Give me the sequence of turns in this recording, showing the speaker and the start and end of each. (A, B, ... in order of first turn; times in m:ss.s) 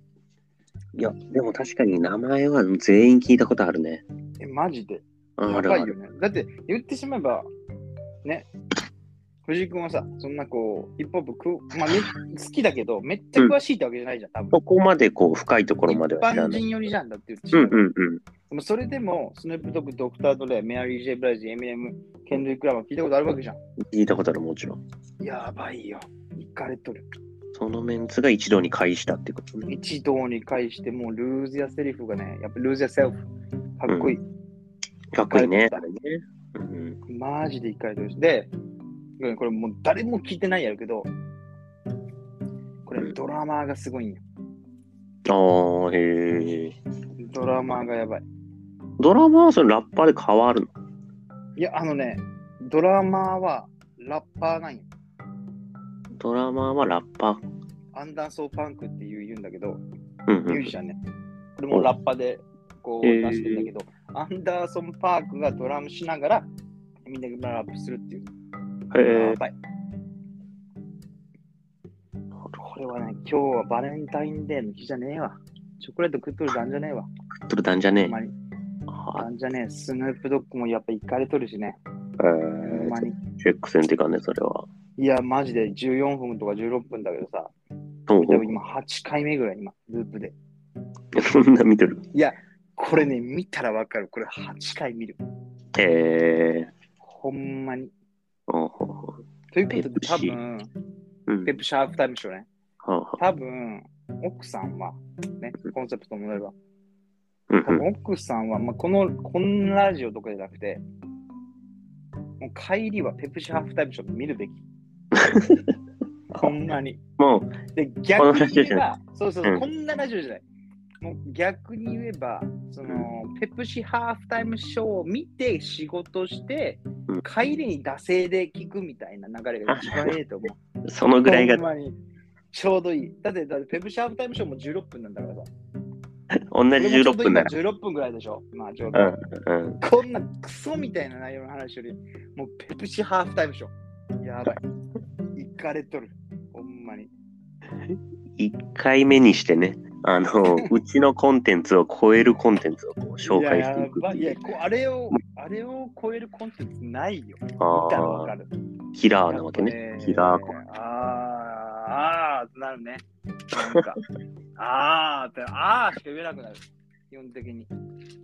0:01.0-0:04.0 A
0:04.4-0:07.5 B
0:05.4-0:05.9 A
0:09.5-0:14.6 B
0:14.5-0:16.6 A
0:15.9-0:17.9 B
0:17.5-0:18.2 A
0:18.5-0:23.6 B
0:23.9-0:24.8 A
0:25.2-0:27.1 B
0:27.6-0:29.6 A
0:29.6-0:33.3 B
0:33.8-0:34.2 B
0:33.9-0:34.2 A
0:35.1-0:37.0 A
0:35.3-0:35.9 B
0:37.1-0:38.5 B
0:39.2-0:41.1 B
0:42.9-0:44.2 B
0:45.3-0:46.8 A
0:47.2-0:48.2 B
0:49.0-0:50.7 A
0:51.6-0:54.9 B
0:56.2-0:57.4 A
0:57.9-0:59.8 B
1:00.3-1:00.7 A
1:00.4-1:01.0 B
1:01.6-1:06.5 B
1:03.0-1:03.7 A
1:07.1-1:08.3 B
1:08.9-1:09.4 A
1:09.1-1:09.5 B
1:12.6-1:17.1 B
1:17.5-1:18.2 A
1:18.0-1:18.3 B
1:18.9-1:19.3 A
1:19.2-1:21.8 B
1:22.2-1:24.7 A
1:22.6-1:23.2 B
1:25.0-1:27.5 B
1:28.1-1:28.5 A
1:28.2-1:30.4 B
1:31.2-1:32.0 A
1:32.1-1:35.2 B
1:35.8-1:36.7 A
1:37.0-1:37.9 B
1:38.5-1:40.4 A
1:39.5-1:40.7 B
1:41.3-1:41.5 A
1:41.4-1:42.5 B
1:42.8-1:43.2 A
1:43.2-1:46.5 B
1:47.5-1:47.9 A
1:47.6-1:50.8 B
1:52.4-1:54.6 B
1:55.1-1:55.7 A
1:56.4-1:57.0 B
1:57.2-1:57.6 A
1:57.8-2:00.4 B
1:58.2-1:58.8 A
2:01.0-2:10.6 B
2:09.7-2:10.2 A
2:10.9-2:11.6 A
2:11.2-2:12.0 B
2:12.5-2:15.5 B
2:16.5-2:17.5 A
2:16.8-2:19.2 B
2:18.9-2:19.8 A
2:19.8-2:24.6 B
2:25.4-2:27.1 B
2:28.4-2:34.4 A
2:33.2-2:38.5 B
2:37.6-2:38.3 A
2:38.9-2:40.5 A
2:39.3-2:44.0 B
2:44.6-2:47.7 B